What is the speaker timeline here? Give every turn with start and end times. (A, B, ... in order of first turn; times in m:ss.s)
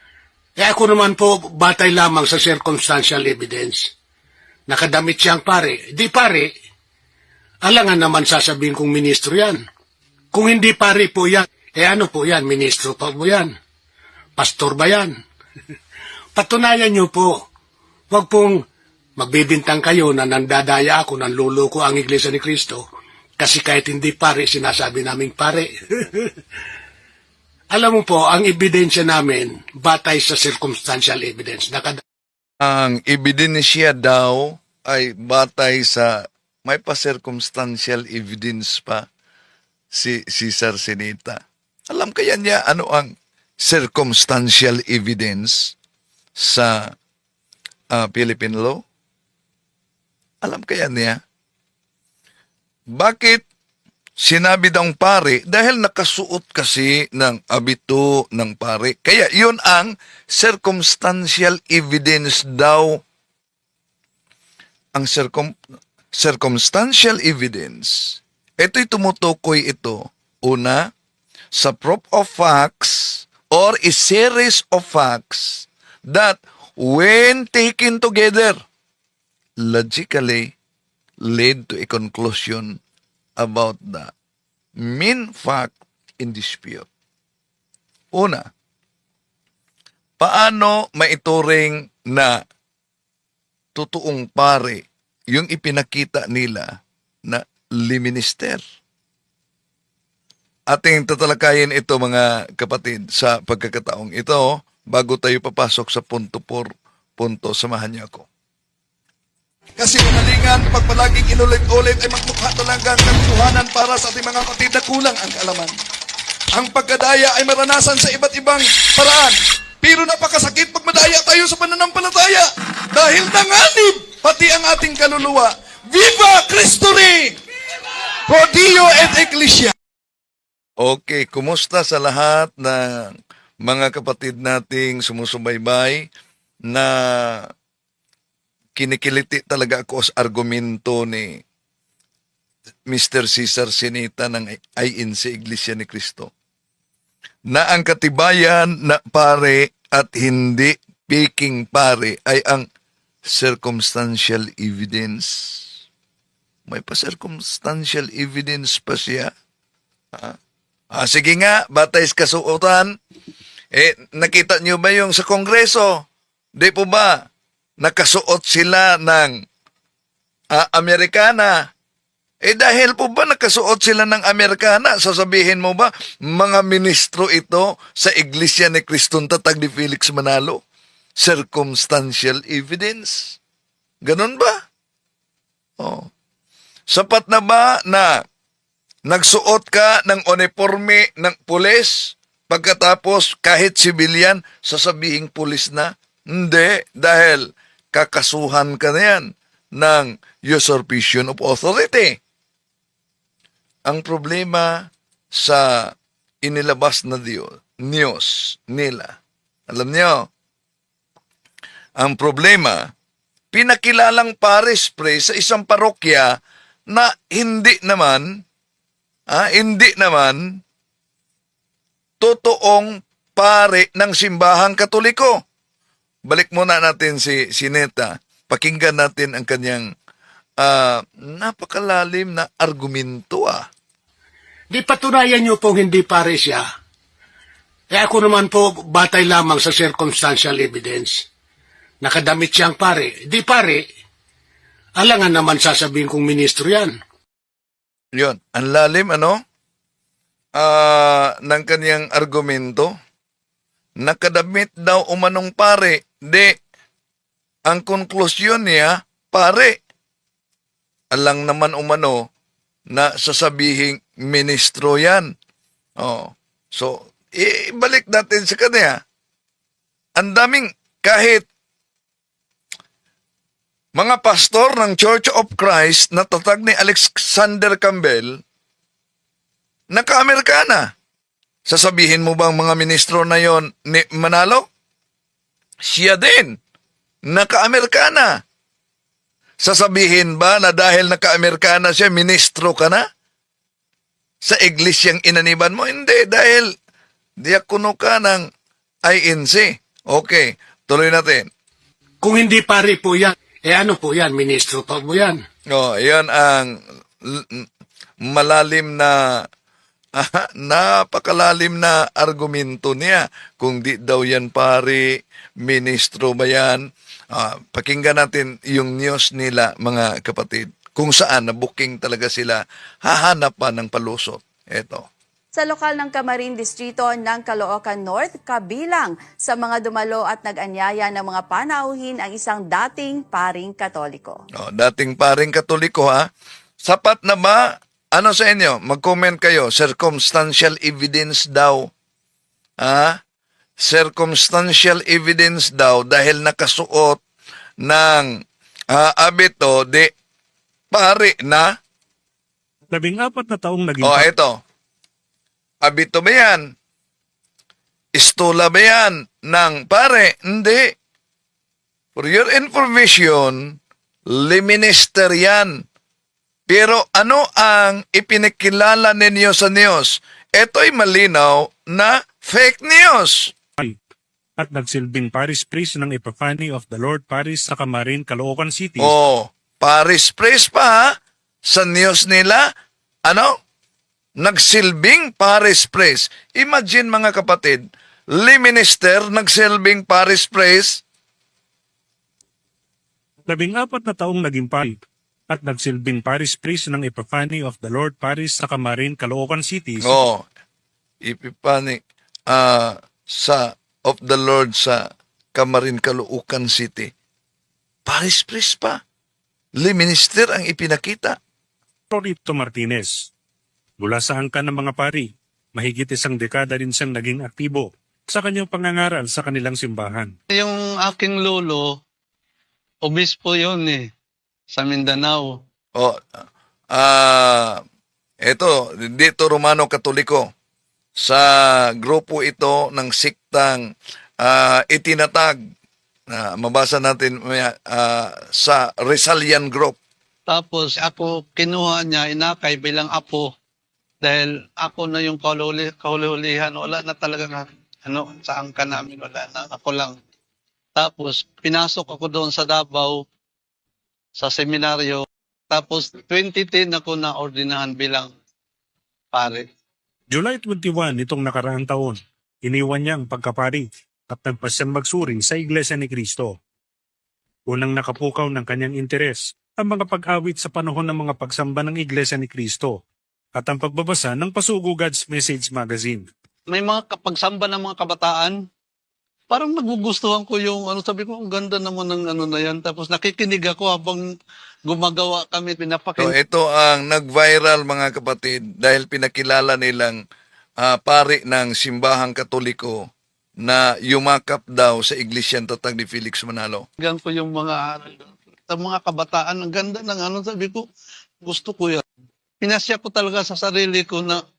0:00.6-0:03.9 A
0:04.7-0:06.5 A
0:07.6-0:09.6 A
0:10.3-0:13.5 A
0:14.4-0:15.2 A
0:16.4-0:17.5 A
0:18.1-0:18.6 A
0:19.2-0:22.8 A
0:23.4-0:26.3 A
0:27.7-0:32.0 A
0:32.6-0:39.1 B
0:39.9-0:45.8 B
0:46.4-0:46.9 B
0:47.9-0:48.8 B
0:50.4-0:51.2 B
0:52.9-0:53.4 B
0:54.2-1:03.0 B
1:05.0-1:05.5 B
1:06.1-1:10.9 B
1:11.5-1:18.6 B
1:19.6-1:20.5 B
1:21.2-1:22.8 B
1:23.4-1:24.1 B
1:24.8-1:26.9 B
1:28.1-1:28.5 B
1:30.2-1:32.4 B
1:33.8-1:38.6 B
1:40.7-1:48.3 B
1:49.8-1:55.8 B
1:56.6-2:07.4 B
2:08.3-2:09.7 B
2:10.8-2:16.0 B
2:16.7-2:17.5 B
2:18.8-2:21.4 B
2:22.9-2:26.3 B
2:27.5-2:32.7 B
2:33.3-2:35.7 B
2:36.7-2:39.3 B
2:40.9-2:42.9 B
2:43.7-2:46.0 B
2:46.6-2:47.3 B
2:47.8-2:49.3 B
2:50.5-2:51.7 B
2:52.4-3:00.6 B
3:01.2-3:03.4 B
3:04.1-3:04.6 B
3:05.8-3:06.1 B
3:06.9-3:08.2 B
3:09.1-3:22.2 B
3:23.9-3:29.2 B
3:29.7-3:30.3 B
3:32.0-3:32.9 B
3:33.5-3:36.3 B
3:36.9-3:38.3 B
3:39.3-3:40.6 B
3:42.2-3:45.4 B
3:46.3-3:49.9 B
3:50.6-3:53.7 B
3:54.7-3:56.6 A
3:57.9-4:01.3 A
4:02.0-4:03.8 A
4:05.0-4:07.0 A
4:08.2-4:09.4 B
4:10.6-4:12.9 B
4:14.0-4:16.6 B
4:17.7-4:19.8 B
4:21.1-4:22.3 B
4:22.9-4:25.3 B
4:26.0-4:29.0 B
4:30.2-4:31.5 B
4:34.0-4:38.4 B
4:39.9-4:40.9 B
4:41.7-4:44.7 B
4:45.8-4:46.6 B
4:47.3-4:48.4 B
4:49.6-4:53.0 B
4:54.4-4:56.7 B
4:57.4-4:58.5 B
4:59.1-5:01.5 B
5:02.2-5:05.4 A
5:05.7-5:07.7 B
5:08.3-5:09.4 B
5:10.2-5:25.1 B
5:25.6-5:34.4 C
5:34.6-5:36.3 B
5:36.8-5:37.6 B
5:38.2-5:41.9 B
5:42.8-5:43.2 B
5:43.8-5:47.2 B
5:47.8-5:48.4 B
5:48.9-5:50.1 B
5:50.9-5:51.7 B
5:52.9-5:54.3 D
5:54.0-5:54.6 B
5:55.8-5:56.6 B
5:58.2-6:00.9 B
6:02.2-6:03.8 B
6:04.3-6:05.8 B
6:06.7-6:13.5 B
6:14.6-6:19.1 D
6:19.0-6:21.2 B
6:21.7-6:22.6 B
6:23.3-6:23.6 B
6:24.4-6:31.0 B
6:33.5-6:35.0 D
6:35.5-6:40.2 D
6:40.0-6:40.5 B
6:41.2-6:47.1 B
6:48.1-6:49.0 B
6:49.8-6:51.4 B
6:52.1-6:53.2 D
6:54.0-7:00.3 D
7:00.5-7:01.9 E
7:03.0-7:04.0 E
7:04.7-7:05.5 E
7:06.0-7:07.8 B
7:08.4-7:10.5 B
7:11.2-7:13.9 B
7:14.4-7:15.6 B
7:16.3-7:20.0 B
7:20.5-7:23.5 E
7:24.2-7:30.2 E
7:31.0-7:33.2 E
7:34.4-7:38.3 E
7:39.3-7:39.7 E
7:40.3-7:46.6 D
7:47.7-7:53.0 D
7:53.6-7:56.3 D
7:56.7-7:58.6 E
7:59.5-8:04.2 E
8:04.9-8:06.3 E
8:06.2-8:10.2 B
8:10.8-8:13.1 B
8:13.6-8:16.9 B
8:17.0-8:20.9 E
8:21.4-8:22.0 E
8:22.6-8:24.4 E